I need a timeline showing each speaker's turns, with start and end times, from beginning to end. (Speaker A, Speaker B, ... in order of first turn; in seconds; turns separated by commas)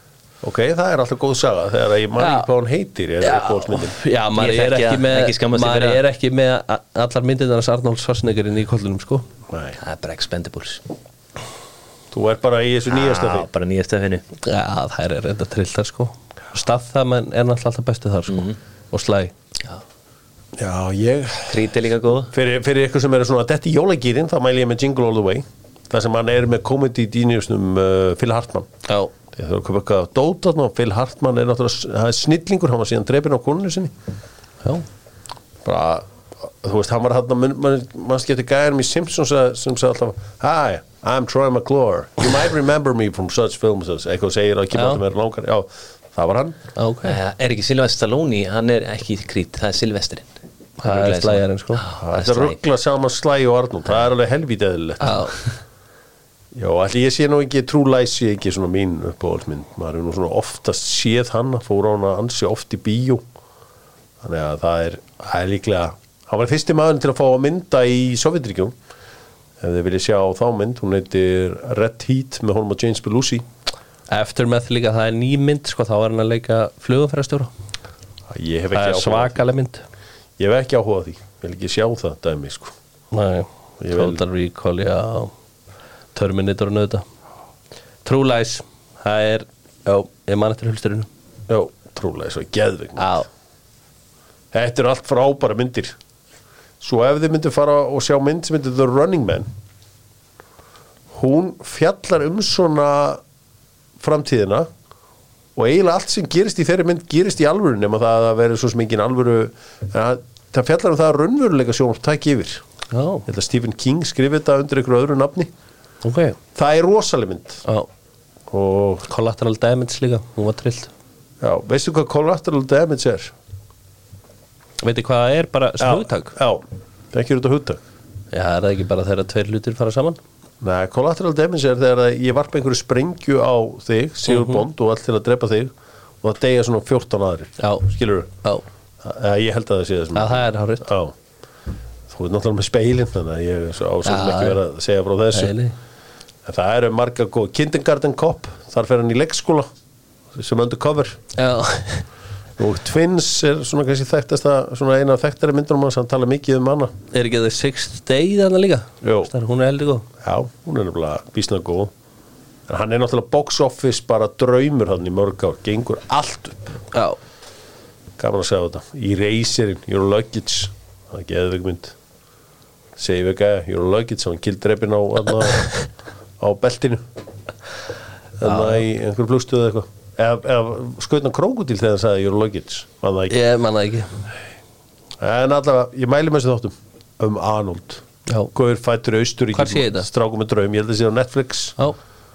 Speaker A: 0.4-4.0, Speaker B: 2.2-2.5, Speaker B: 3.2-9.2, Speaker C: 4.3-6.0, Speaker A: 9.5-9.8, Speaker C: 9.8-10.8, Speaker A: 12.1-13.5, Speaker C: 12.9-14.2, Speaker B: 14.4-19.3, Speaker C: 18.3-18.6, Speaker A: 20.6-21.7, Speaker C: 21.5-22.3, Speaker A: 22.3-28.7, Speaker A: 29.3-33.9, Speaker A: 35.6-46.6, Speaker B: 44.7-45.0, Speaker B: 46.8-47.2, Speaker C: 47.0-50.3, Speaker B: 50.8-51.8, Speaker C: 50.8-52.6, Speaker A: 52.0-55.3, Speaker B: 55.0-55.4, Speaker A: 56.5-63.2, Speaker A: 64.2-68.7, Speaker A: 69.6-73.5, Speaker B: 74.1-77.5, Speaker A: 78.3-79.4, Speaker B: 78.7-79.8, Speaker A: 80.4-82.7, Speaker B: 83.1-85.3, Speaker A: 83.8-84.2, Speaker B: 86.1-87.0, Speaker B: 88.0-91.1, Speaker A: 91.5-93.2, Speaker B: 93.0-93.3, Speaker A: 94.5-96.0, Speaker A: 96.8-99.5, Speaker A: 101.1-103.2, Speaker A: 104.0-104.7, Speaker A: 105.6-112.6, Speaker B: 112.9-113.3, Speaker A: 113.3-115.5, Speaker B: 116.0-116.4, Speaker A: 116.5-117.6, Speaker A: 118.5-119.1, Speaker B: 119.1-120.9, Speaker A: 121.4-123.3, Speaker B: 124.8-126.3, Speaker A: 125.8-127.8, Speaker B: 128.3-130.2, Speaker A: 130.6-135.7, Speaker B: 134.3-134.6, Speaker A: 136.2-138.3, Speaker B: 137.6-137.9, Speaker A: 139.0-141.1, Speaker B: 140.1-140.9, Speaker A: 142.1-145.5, Speaker B: 144.1-144.6, Speaker B: 145.3-145.7, Speaker A: 146.4-149.7, Speaker A: 150.3-151.2, Speaker B: 151.4-152.1, Speaker A: 152.6-156.9, Speaker B: 157.1-160.1, Speaker A: 159.0-159.3, Speaker A: 160.2-161.9, Speaker A: 162.7-166.8, Speaker A: 168.2-171.9, Speaker A: 173.0-175.8, Speaker A: 176.4-177.0, Speaker A: 178.4-183.4, Speaker B: 178.4-178.8, Speaker B: 183.3-184.1, Speaker A: 185.2-191.8, Speaker B: 189.6-190.1